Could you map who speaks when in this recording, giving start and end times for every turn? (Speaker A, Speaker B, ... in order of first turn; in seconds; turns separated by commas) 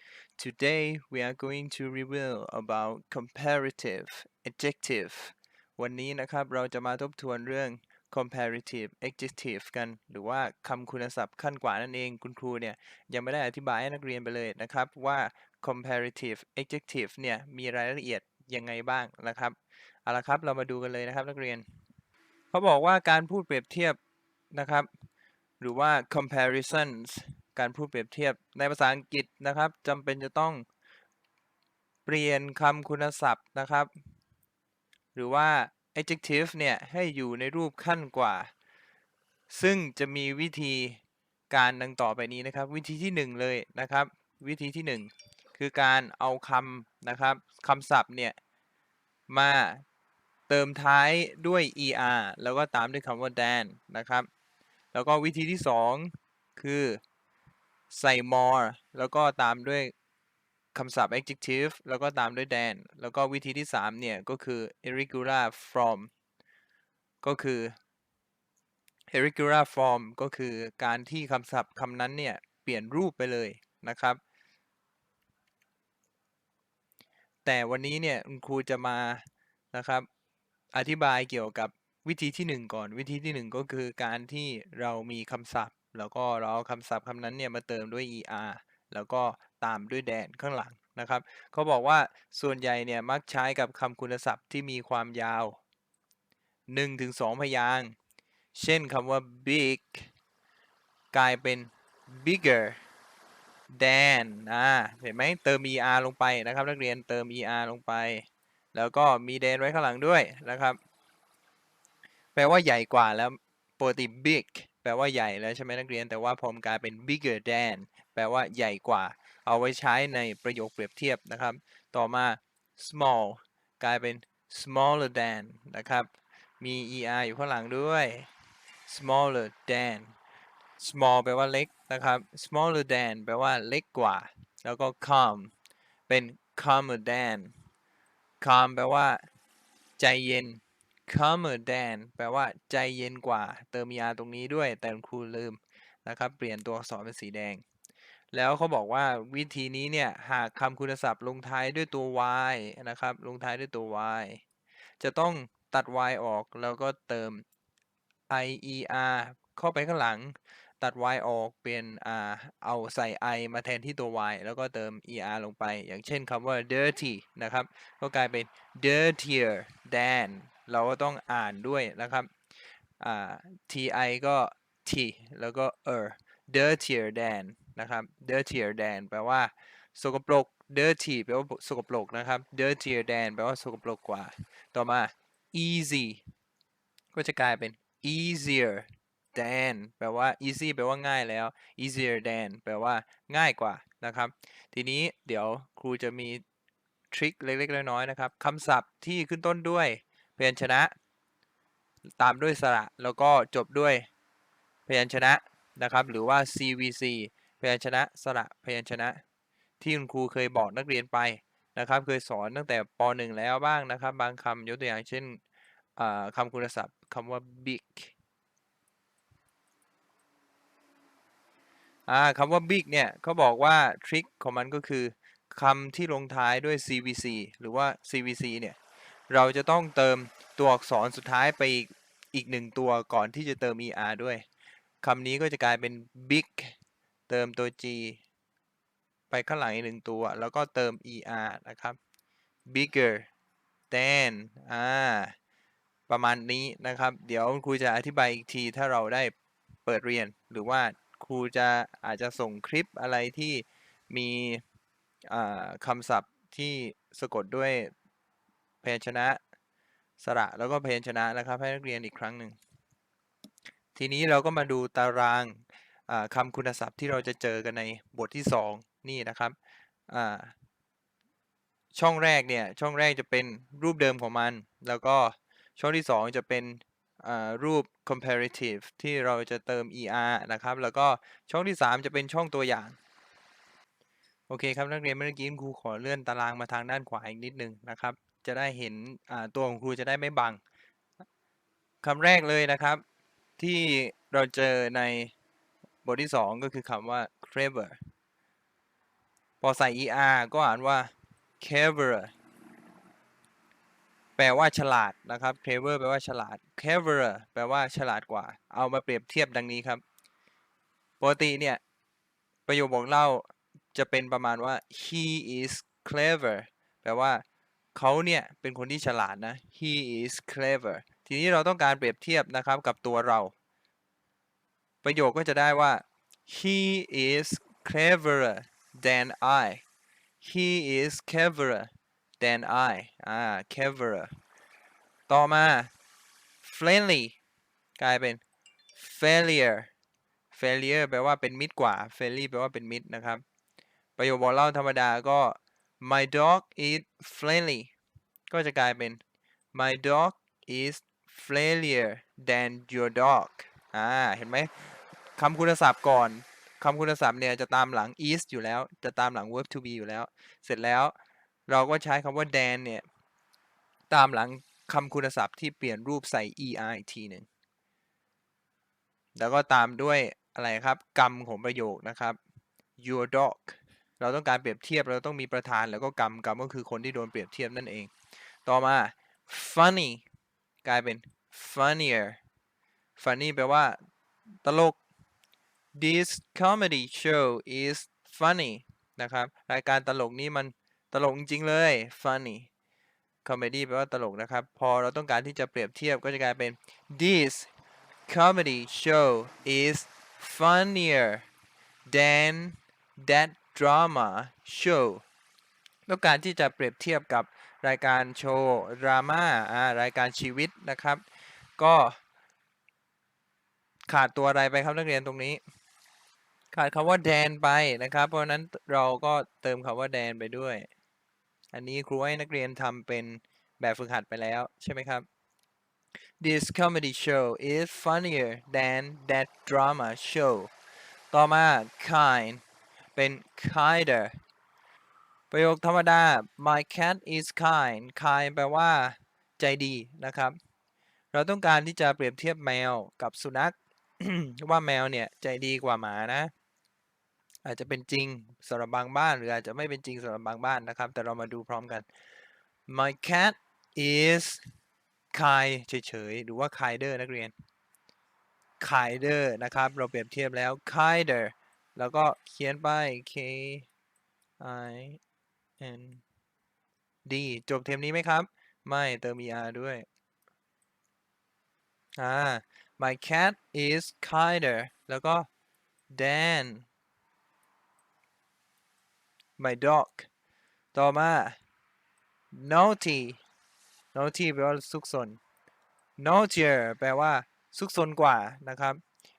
Speaker A: 0.4-21.6, Speaker A: 22.5-24.0, Speaker A: 24.5-24.9, Speaker A: 25.6-30.6, Speaker A: 32.0-33.9, Speaker A: 35.1-38.5, Speaker A: 39.5-48.4, Speaker A: 49.3-49.8, Speaker A: 50.5-54.3, Speaker A: 54.9-57.0, Speaker A: 57.9-59.9, Speaker A: 60.7-66.1, Speaker A: 67.2-67.8, Speaker A: 69.1-74.2, Speaker A: 77.4-80.1, Speaker A: 80.7-95.6, Speaker A: 96.7-97.9, Speaker A: 98.5-100.1, Speaker A: 101.1-102.8, Speaker A: 103.7-110.8, Speaker A: 112.3-128.3, Speaker A: 128.9-130.1, Speaker A: 130.8-135.5, Speaker A: 136.1-137.5, Speaker A: 138.4-139.2, Speaker A: 140.0-147.6, Speaker A: 148.3-154.4, Speaker A: 155.0-157.4, Speaker A: 158.3-172.3, Speaker A: 173.0-186.2, Speaker A: 187.1-196.4, Speaker A: 197.1-200.9, Speaker A: 202.2-204.1, Speaker A: 204.8-209.2, Speaker A: 209.8-215.4, Speaker A: 216.0-218.1, Speaker A: 222.1-228.8, Speaker A: 229.3-234.4, Speaker A: 235.0-236.7, Speaker A: 237.3-238.2, Speaker A: 239.3-242.0, Speaker A: 242.7-243.3, Speaker A: 243.9-245.3, Speaker A: 246.1-249.3, Speaker A: 249.8-254.6, Speaker A: 255.3-257.9, Speaker A: 258.8-259.4, Speaker A: 260.2-262.6, Speaker A: 263.9-269.5, Speaker A: 270.1-270.5, Speaker A: 271.9-283.0, Speaker A: 284.5-290.6, Speaker A: 292.0-293.0, Speaker A: 293.6-295.3, Speaker A: 296.0-298.0, Speaker A: 299.6-302.3, Speaker A: 304.4-310.0, Speaker A: 311.2-311.8, Speaker A: 312.7-317.4, Speaker A: 317.9-323.5, Speaker A: 325.0-329.8, Speaker A: 330.4-334.3, Speaker A: 335.3-335.9, Speaker A: 336.6-337.4, Speaker A: 338.0-338.4, Speaker A: 338.9-339.9, Speaker A: 340.5-343.4, Speaker A: 344.2-347.9, Speaker A: 348.5-349.2, Speaker A: 349.7-354.7, Speaker A: 355.4-361.1, Speaker A: 361.7-363.0, Speaker A: 364.1-367.5, Speaker A: 369.4-372.4, Speaker A: 373.0-378.1, Speaker A: 378.6-380.2, Speaker A: 380.8-382.4, Speaker A: 383.2-384.0, Speaker A: 384.6-385.0, Speaker A: 385.9-392.7, Speaker A: 393.4-397.7, Speaker A: 398.3-401.4, Speaker A: 402.1-405.2, Speaker A: 406.1-411.2, Speaker A: 411.8-412.2, Speaker A: 414.1-415.6, Speaker A: 416.7-420.9, Speaker A: 421.7-425.2, Speaker A: 426.4-430.7, Speaker A: 431.3-432.6, Speaker A: 433.1-434.3, Speaker A: 435.5-440.6, Speaker A: 441.3-446.5, Speaker A: 447.6-452.1, Speaker A: 452.9-454.6, Speaker A: 455.3-457.5, Speaker A: 458.8-463.9, Speaker A: 464.6-465.2, Speaker A: 465.8-466.2, Speaker A: 467.2-470.1, Speaker A: 472.2-475.5, Speaker A: 476.1-476.9, Speaker A: 479.6-480.3, Speaker A: 480.9-481.6, Speaker A: 482.5-483.4, Speaker A: 484.1-485.4, Speaker A: 486.2-489.0